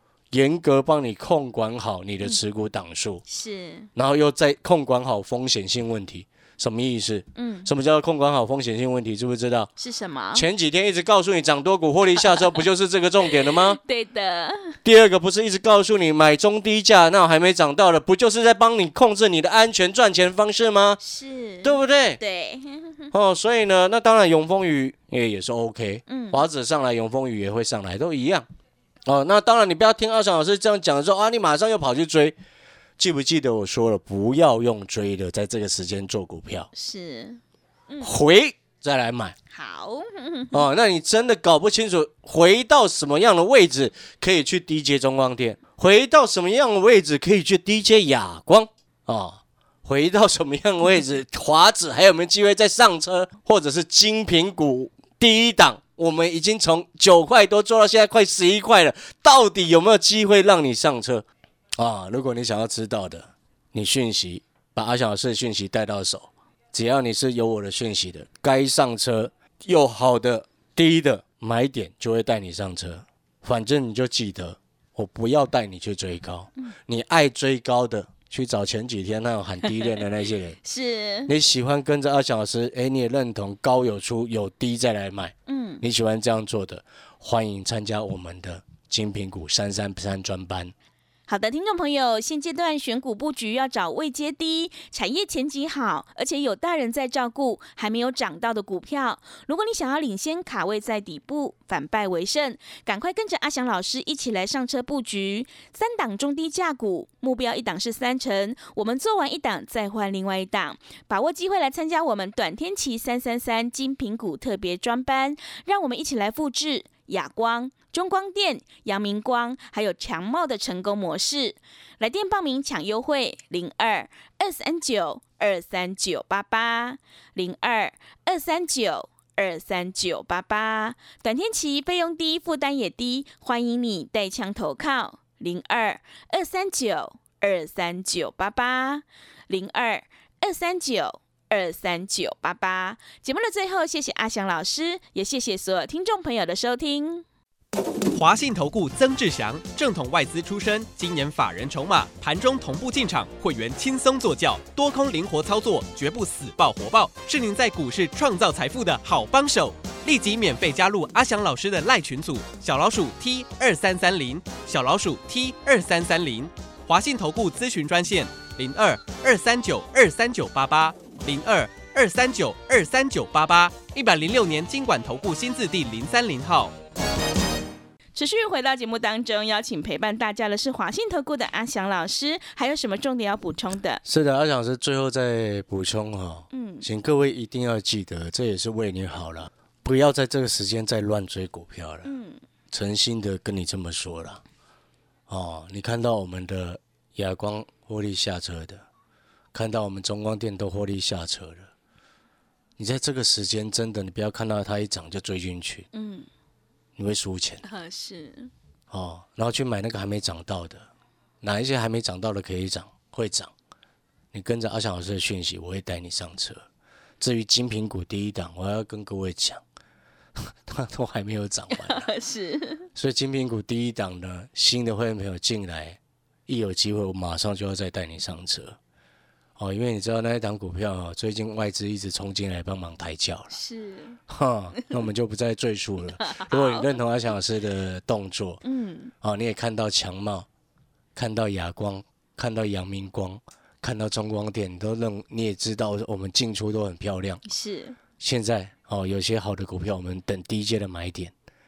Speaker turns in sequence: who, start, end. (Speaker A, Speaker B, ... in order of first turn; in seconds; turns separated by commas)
Speaker A: 0.3-3.2, Speaker B: 3.3-3.9, Speaker A: 4.0-9.7, Speaker B: 7.4-7.7, Speaker B: 9.8-10.5, Speaker A: 10.3-13.8, Speaker B: 12.2-12.7, Speaker B: 13.2-14.8, Speaker A: 14.8-21.0, Speaker B: 21.0-23.1, Speaker A: 21.6-22.2, Speaker A: 23.1-28.5, Speaker B: 26.1-26.4, Speaker A: 29.1-32.4, Speaker A: 33.0-36.7, Speaker B: 36.7-38.1, Speaker A: 38.0-39.4, Speaker B: 39.5-40.7, Speaker A: 40.5-61.2, Speaker A: 61.8-80.6, Speaker B: 79.6-80.0, Speaker B: 80.6-81.3, Speaker A: 81.3-90.7, Speaker B: 85.5-85.8, Speaker B: 91.3-147.3, Speaker C: 148.1-176.8, Speaker B: 178.2-184.0, Speaker A: 184.0-192.1, Speaker B: 186.5-186.9, Speaker B: 192.0-192.4, Speaker A: 192.7-194.4, Speaker A: 195.3-198.8, Speaker A: 199.5-201.7, Speaker A: 202.8-205.9, Speaker B: 205.9-206.3, Speaker A: 207.0-207.6, Speaker B: 207.6-208.5, Speaker A: 208.9-210.9, Speaker A: 211.4-213.5, Speaker A: 214.3-216.7, Speaker A: 217.2-219.6, Speaker A: 220.4-222.1, Speaker B: 221.7-222.9, Speaker A: 222.9-228.8, Speaker A: 229.6-233.5, Speaker B: 233.5-234.2, Speaker A: 234.3-238.6, Speaker B: 236.2-236.9, Speaker B: 238.6-239.1, Speaker A: 239.2-240.5, Speaker A: 241.2-247.4, Speaker B: 247.5-248.0, Speaker A: 248.2-251.3